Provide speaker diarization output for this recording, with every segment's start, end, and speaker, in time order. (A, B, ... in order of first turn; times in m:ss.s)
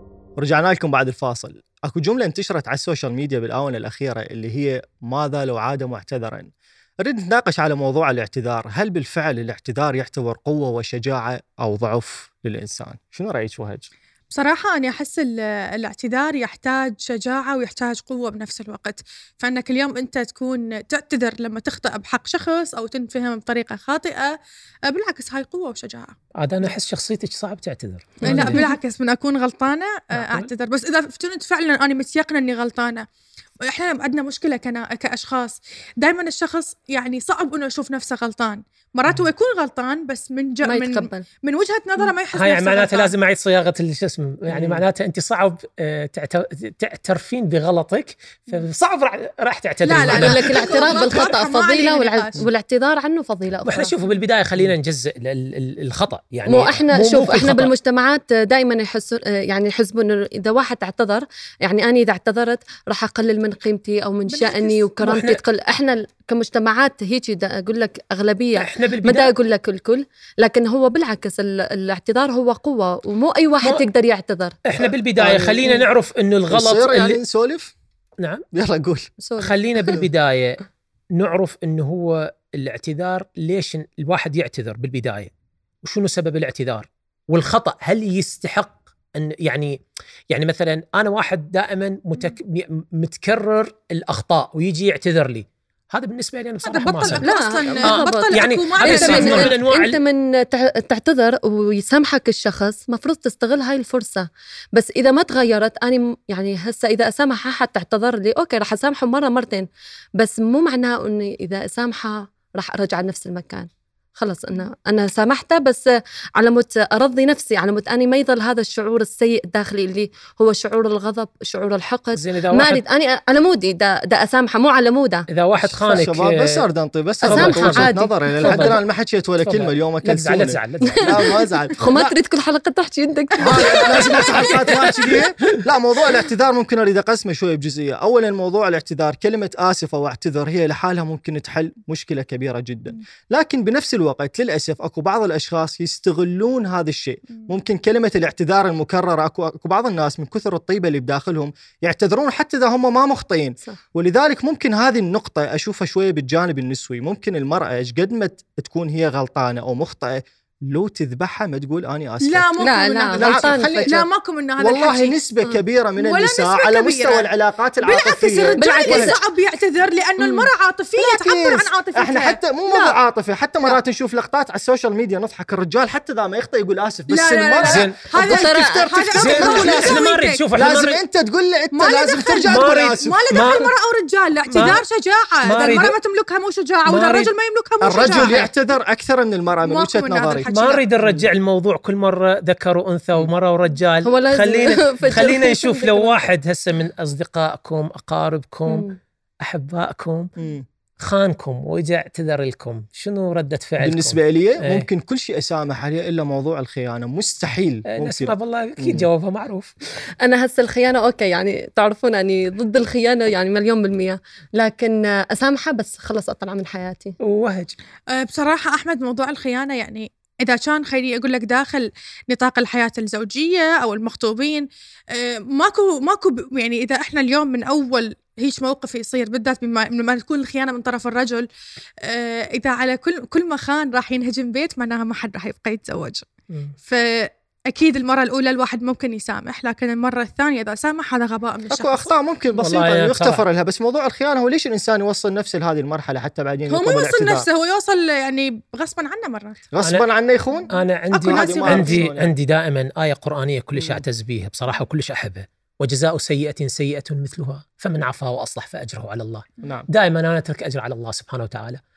0:00.4-0:13.9 A
0:14.3-0:24.4 B
0:24.9-0:26.2 B
0:26.4-0:28.6 C
0:28.2-0:28.6 D
0:28.2-0:33.0 B
0:30.1-0:30.5 C
0:33.6-0:43.1 B
0:40.6-0:41.2 D
0:42.3-0:51.2 C
0:44.5-0:44.8 A
0:49.8-0:52.4 B
0:50.1-0:54.0 D
0:53.6-0:57.7 C
0:56.5-1:14.6 D
1:04.3-1:04.9 B
1:05.0-1:05.4 C
1:08.6-1:09.3 C
1:14.6-1:17.2 C
1:14.8-1:15.8 A
1:16.5-1:17.7 A
1:18.5-1:19.1 A
1:19.2-1:19.7 D
1:19.4-1:20.6 C
1:21.1-1:25.3 C
1:25.8-1:29.8 C
1:30.3-1:40.0 C
1:36.6-1:39.6 B
1:37.2-1:49.7 D
1:50.2-2:05.3 D
2:02.1-2:02.8 C
2:05.3-2:06.6 C
2:05.9-2:12.1 A
2:07.2-2:08.8 C
2:07.2-2:08.8 D
2:09.4-2:11.3 C
2:10.8-2:14.8 D
2:13.4-2:42.5 A
2:13.6-2:14.9 C
2:42.2-2:45.2 B
2:42.6-2:44.0 D
2:43.1-2:49.1 A
2:46.0-2:47.3 B
2:47.8-2:53.0 B
2:48.6-2:49.2 D
2:50.2-2:50.5 D
2:51.0-3:00.0 A
2:57.1-3:00.4 B
2:57.6-2:58.1 C
2:58.2-2:59.0 D
2:59.2-3:01.0 C
3:00.5-3:03.2 A
3:01.7-3:08.5 B
3:02.5-3:03.7 C
3:04.5-3:04.8 C
3:05.4-3:06.0 C
3:06.9-3:07.3 C
3:07.8-3:10.5 A
3:09.6-3:10.9 B
3:10.5-3:18.9 C
3:14.0-3:16.3 D
3:18.7-3:19.0 D
3:19.4-3:20.3 C
3:20.4-3:20.6 A
3:21.0-3:24.9 C
3:23.8-3:29.1 A
3:27.9-3:29.7 C
3:30.2-3:37.2 D
3:37.2-3:37.8 C
3:38.1-3:51.5 B
3:52.0-3:56.3 B
3:56.8-4:02.1 B
4:01.7-4:07.5 A
4:02.6-4:03.4 C
4:06.7-4:09.6 B
4:09.7-4:10.7 A
4:09.8-4:10.1 C
4:10.7-4:21.8 C
4:11.1-4:12.1 B
4:11.2-4:12.3 A
4:13.7-4:14.0 A
4:19.6-4:19.9 A